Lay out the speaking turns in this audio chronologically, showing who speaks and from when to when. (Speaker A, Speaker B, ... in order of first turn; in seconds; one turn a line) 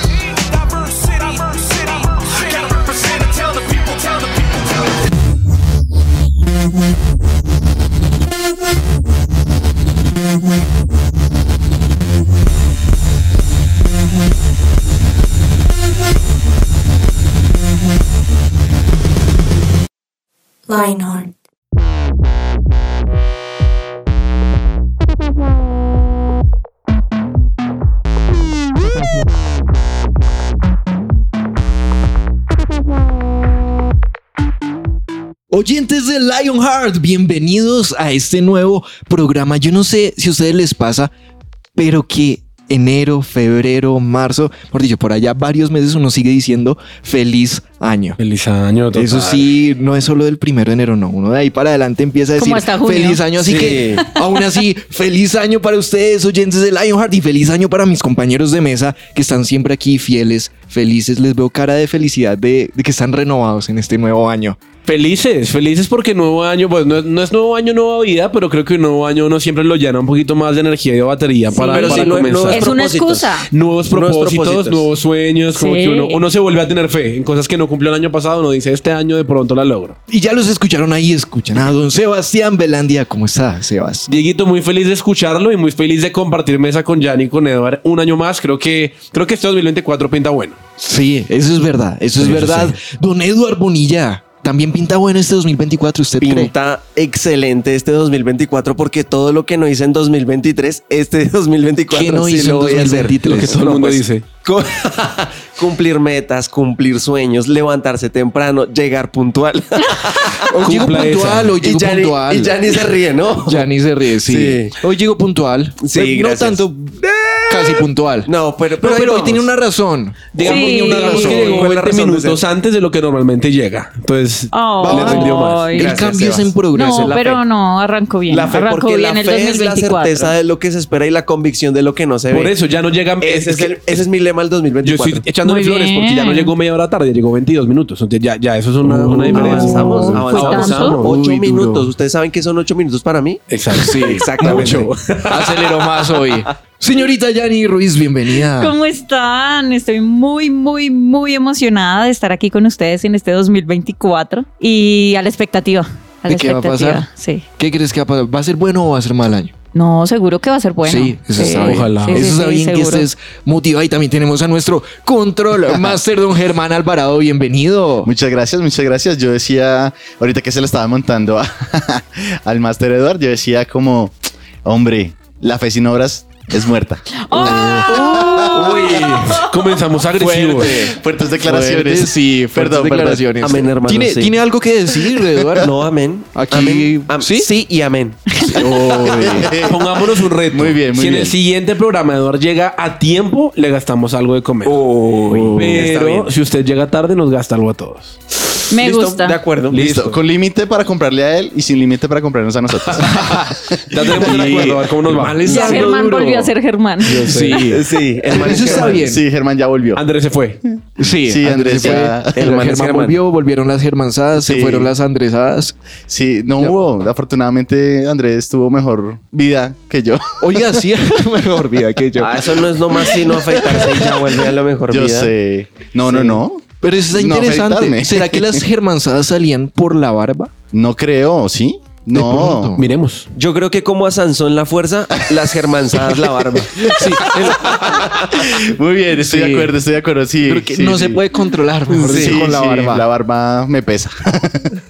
Speaker A: 1.2-1.9
Speaker A: 2.6-4.2
Speaker A: 20.7-21.2
Speaker B: 35.5-41.1
Speaker B: 41.8-48.2
Speaker C: 48.2-49.5
Speaker B: 48.9-64.6
Speaker D: 52.4-53.2
Speaker E: 53.4-54.0
Speaker C: 64.9-72.7
Speaker D: 71.5-73.5
Speaker E: 71.5-73.3
Speaker C: 73.5-80.0
Speaker E: 73.9-74.9
Speaker D: 75.5-76.2
Speaker B: 80.1-84.1
Speaker C: 84.1-90.6
Speaker B: 90.8-96.5
Speaker C: 92.2-92.8
Speaker E: 96.2-110.5
Speaker B: 101.9-103.6
Speaker C: 103.2-104.3
Speaker B: 110.5-112.9
Speaker C: 110.6-111.6
Speaker E: 111.6-113.7
Speaker B: 113.4-117.0
Speaker E: 114.3-114.7
Speaker E: 115.8-119.5
Speaker B: 117.5-121.6
Speaker C: 120.3-125.8
Speaker D: 120.4-121.5
Speaker E: 120.9-122.4
Speaker D: 124.5-125.9
Speaker B: 124.8-127.3
Speaker E: 125.7-127.4
Speaker D: 126.7-130.4
Speaker E: 128.3-132.6
Speaker C: 132.3-134.0
Speaker E: 133.2-135.2
Speaker C: 134.8-141.2
Speaker D: 135.4-136.5
Speaker E: 139.0-144.9
Speaker D: 139.3-141.0
Speaker B: 141.0-141.9
Speaker C: 143.5-145.8
Speaker B: 143.7-148.7
Speaker D: 148.6-157.4
Speaker B: 156.3-157.1
Speaker B: 157.6-159.5
Speaker D: 159.8-163.1
Speaker B: 160.8-168.1
Speaker C: 161.5-162.3
Speaker F: 168.1-178.8
Speaker D: 177.2-179.5
Speaker B: 177.4-179.4
Speaker C: 178.9-180.8
Speaker B: 180.1-185.7
Speaker F: 180.8-183.3
Speaker E: 183.4-184.4
Speaker E: 185.6-188.3
Speaker B: 186.3-187.5
Speaker B: 188.4-189.6
Speaker F: 188.7-191.4
Speaker C: 189.6-194.8
Speaker E: 194.7-196.3
Speaker B: 195.3-195.9
Speaker C: 195.5-198.2
Speaker D: 198.7-199.4
Speaker E: 198.8-199.8
Speaker C: 199.7-200.2
Speaker F: 199.7-203.5
Speaker B: 203.0-206.5
Speaker C: 203.9-205.8
Speaker F: 204.4-204.7
Speaker D: 205.5-207.3
Speaker E: 205.5-205.8
Speaker C: 207.1-207.7
Speaker B: 207.1-209.2
Speaker E: 207.6-209.1
Speaker F: 208.3-210.0
Speaker C: 209.9-210.6
Speaker B: 211.0-215.8
Speaker F: 211.2-212.5
Speaker E: 212.3-213.2
Speaker F: 214.4-214.9
Speaker F: 216.1-220.7
Speaker B: 220.4-223.2
Speaker E: 222.2-225.3
Speaker F: 224.9-228.6
Speaker E: 226.1-226.4
Speaker B: 226.8-230.5
Speaker F: 230.7-232.7
Speaker B: 232.1-232.9
Speaker C: 232.8-233.3
Speaker E: 233.3-236.8
Speaker F: 236.8-241.2
Speaker B: 236.9-237.7
Speaker B: 239.1-239.8
Speaker B: 240.4-243.1
Speaker E: 241.9-242.4
Speaker F: 242.0-244.7